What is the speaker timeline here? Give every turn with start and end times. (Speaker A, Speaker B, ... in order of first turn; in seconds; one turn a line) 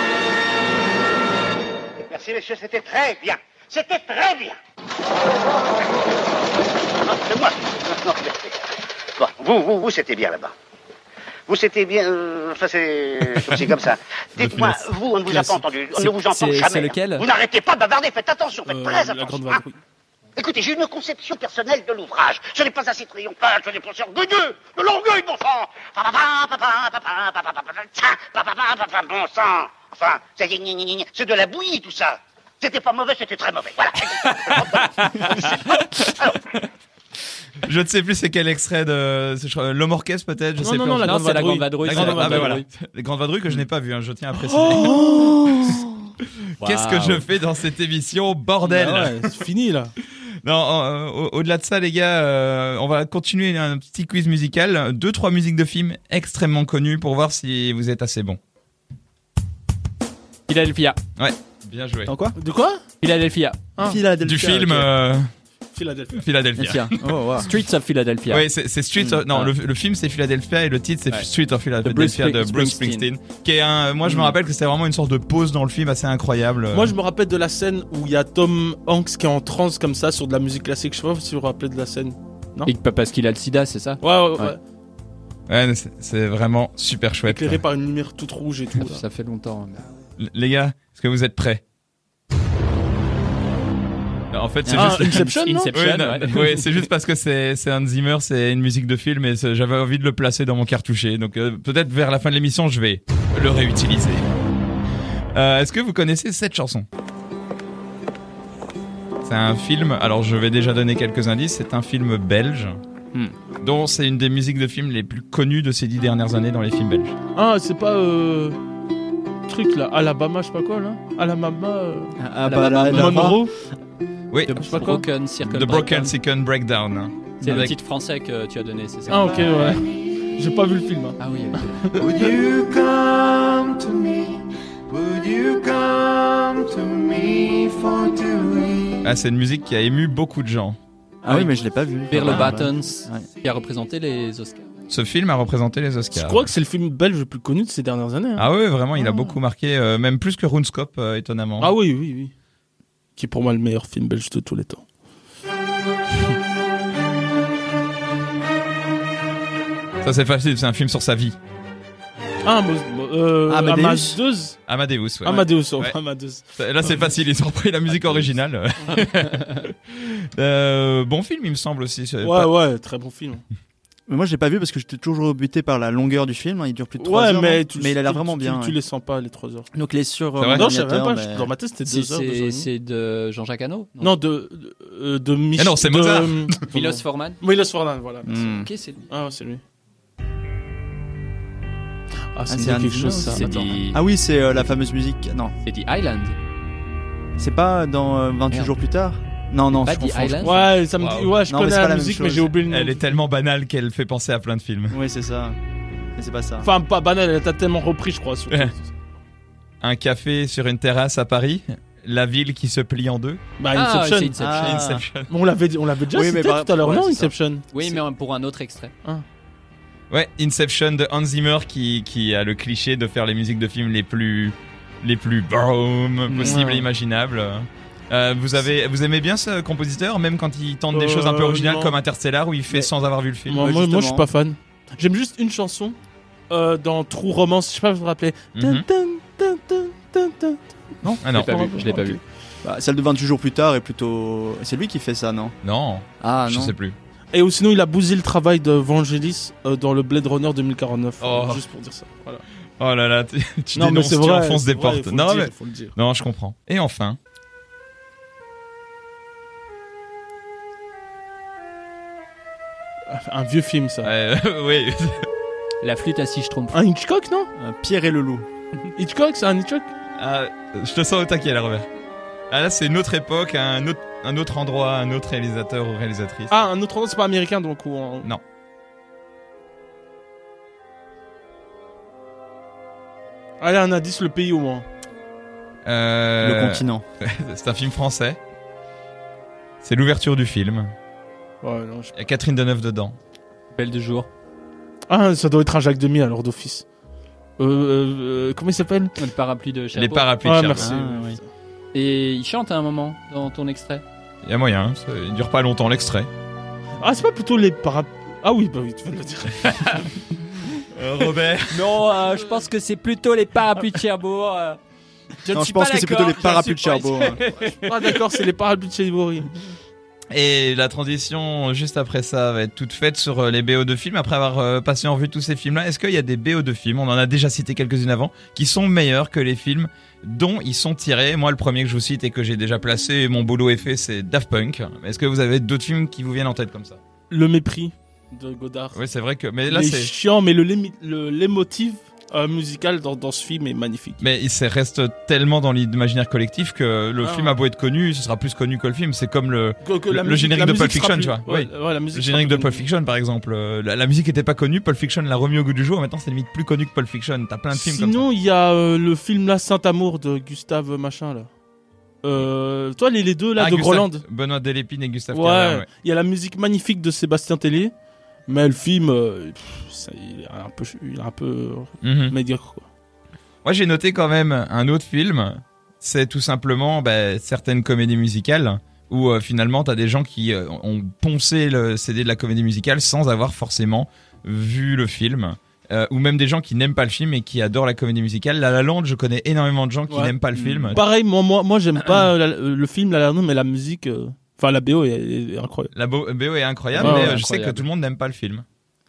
Speaker A: 2.0-4.6
Speaker A: 7.0-10.5
Speaker A: 11.5-19.6
Speaker B: 13.4-13.7
Speaker B: 14.4-14.9
Speaker C: 15.2-17.3
Speaker D: 18.6-19.8
Speaker A: 20.4-35.5
Speaker C: 34.7-35.5
Speaker B: 37.6-41.2
Speaker D: 40.6-42.6
Speaker C: 41.0-42.6
Speaker B: 41.8-45.0
Speaker D: 44.3-45.8
Speaker E: 45.1-45.7
Speaker B: 46.6-49.3
Speaker C: 46.6-47.2
Speaker D: 48.6-49.9
Speaker B: 50.4-58.4
Speaker C: 60.5-61.0
Speaker B: 61.2-62.1
Speaker E: 62.0-62.4
Speaker D: 62.4-62.8
Speaker C: 63.0-63.7
Speaker E: 63.8-64.9
Speaker B: 64.2-65.3
Speaker D: 65.7-66.3
Speaker B: 66.1-66.9
Speaker E: 66.6-67.5
Speaker C: 67.4-68.5
Speaker B: 68.3-76.9
Speaker E: 69.0-69.2
Speaker C: 71.8-73.1
Speaker E: 74.0-74.3
Speaker D: 76.7-82.7
Speaker C: 82.6-84.5
Speaker D: 84.0-84.6
Speaker B: 85.5-87.6
Speaker D: 87.3-89.0
Speaker C: 88.7-89.8
Speaker B: 90.2-91.6
Speaker B: 94.3-104.3
Speaker C: 94.7-96.8
Speaker D: 94.7-95.7
Speaker B: 105.3-106.8
Speaker B: 109.2-112.8
Speaker B: 113.6-117.2
Speaker D: 117.3-118.6
Speaker D: 119.5-122.1
Speaker E: 122.2-123.4
Speaker C: 122.4-123.3
Speaker D: 122.9-123.5
Speaker B: 124.3-124.7
Speaker C: 124.5-126.1
Speaker D: 124.7-125.0
Speaker B: 125.4-127.7
Speaker C: 127.4-129.8
Speaker E: 127.4-127.7
Speaker D: 129.1-132.4
Speaker C: 131.2-131.8
Speaker F: 132.0-139.0
Speaker B: 139.0-140.8
Speaker E: 141.2-143.2
Speaker C: 141.3-141.6
Speaker C: 142.1-144.7
Speaker B: 144.9-146.5
Speaker D: 146.1-148.5
Speaker B: 148.4-151.7
Speaker E: 149.0-149.3
Speaker D: 151.6-152.3
Speaker D: 153.2-154.8
Speaker B: 160.0-161.3
Speaker D: 162.4-164.6
Speaker E: 163.5-164.2
Speaker B: 164.7-166.0
Speaker D: 165.2-167.1
Speaker B: 166.6-172.5
Speaker D: 172.2-173.4
Speaker E: 174.1-178.8
Speaker D: 177.0-179.7
Speaker E: 179.7-181.5
Speaker B: 180.4-180.7
Speaker D: 180.5-182.7
Speaker C: 181.8-184.2
Speaker D: 184.0-188.5
Speaker B: 185.6-186.5
Speaker C: 186.7-187.4
Speaker E: 188.2-188.7
Speaker C: 188.5-189.0
Speaker D: 189.1-189.6
Speaker D: 192.3-193.8
Speaker E: 192.5-195.5
Speaker C: 193.3-194.0
Speaker C: 195.6-196.4
Speaker E: 197.4-200.6
Speaker C: 199.8-200.7
Speaker D: 200.4-203.1
Speaker B: 201.0-201.4
Speaker E: 201.4-202.5
Speaker B: 202.6-205.0
Speaker E: 204.9-205.6
Speaker E: 206.1-206.7
Speaker D: 206.6-208.9
Speaker B: 209.8-213.4
Speaker D: 213.6-214.4
Speaker C: 213.7-214.9
Speaker E: 214.4-215.1
Speaker B: 214.6-215.3
Speaker D: 215.3-218.0
Speaker E: 216.1-217.3
Speaker C: 217.7-218.9
Speaker B: 220.1-233.6
Speaker D: 226.3-226.9
Speaker D: 230.9-232.0
Speaker D: 233.5-235.9
Speaker E: 233.6-234.3
Speaker D: 236.5-242.2
Speaker B: 238.5-238.9
Speaker B: 241.2-241.5
Speaker C: 241.2-242.2
Speaker E: 242.6-245.5
Speaker B: 245.6-246.9
Speaker E: 246.2-246.8
Speaker D: 247.3-252.4
Speaker B: 251.2-251.6
Speaker B: 252.8-257.2
Speaker D: 253.7-255.9
Speaker D: 263.1-264.1
Speaker B: 264.0-265.3
Speaker C: 265.8-266.8
Speaker D: 266.7-267.5
Speaker E: 267.6-268.4
Speaker D: 269.0-269.9
Speaker B: 270.2-271.9
Speaker B: 272.5-276.6
Speaker D: 276.5-278.3
Speaker D: 283.6-284.9
Speaker B: 285.8-288.4
Speaker E: 286.4-287.0
Speaker B: 289.8-290.9
Speaker D: 291.6-292.1
Speaker B: 292.1-293.2
Speaker C: 293.7-294.3
Speaker D: 295.1-296.8
Speaker D: 297.6-299.2
Speaker C: 299.2-300.3
Speaker B: 299.9-300.9
Speaker D: 300.4-301.5
Speaker E: 300.8-301.4
Speaker C: 301.9-304.0
Speaker B: 304.4-306.3
Speaker D: 307.0-309.8
Speaker B: 310.7-311.9
Speaker C: 311.7-314.8
Speaker C: 315.4-318.1
Speaker E: 315.5-317.4
Speaker D: 317.7-319.7
Speaker B: 320.3-337.0
Speaker D: 337.3-339.0
Speaker B: 338.9-340.1
Speaker D: 339.6-344.2
Speaker B: 344.2-358.2
Speaker D: 347.2-347.6
Speaker D: 349.8-352.8
Speaker D: 357.7-361.5
Speaker D: 362.2-364.2
Speaker B: 363.6-365.9
Speaker D: 365.3-367.9
Speaker D: 368.5-372.9
Speaker B: 372.0-372.4
Speaker B: 373.6-391.1
Speaker D: 390.1-390.3
Speaker E: 390.5-391.0
Speaker D: 390.9-395.9
Speaker B: 395.9-398.6
Speaker C: 396.9-397.9
Speaker D: 397.0-397.4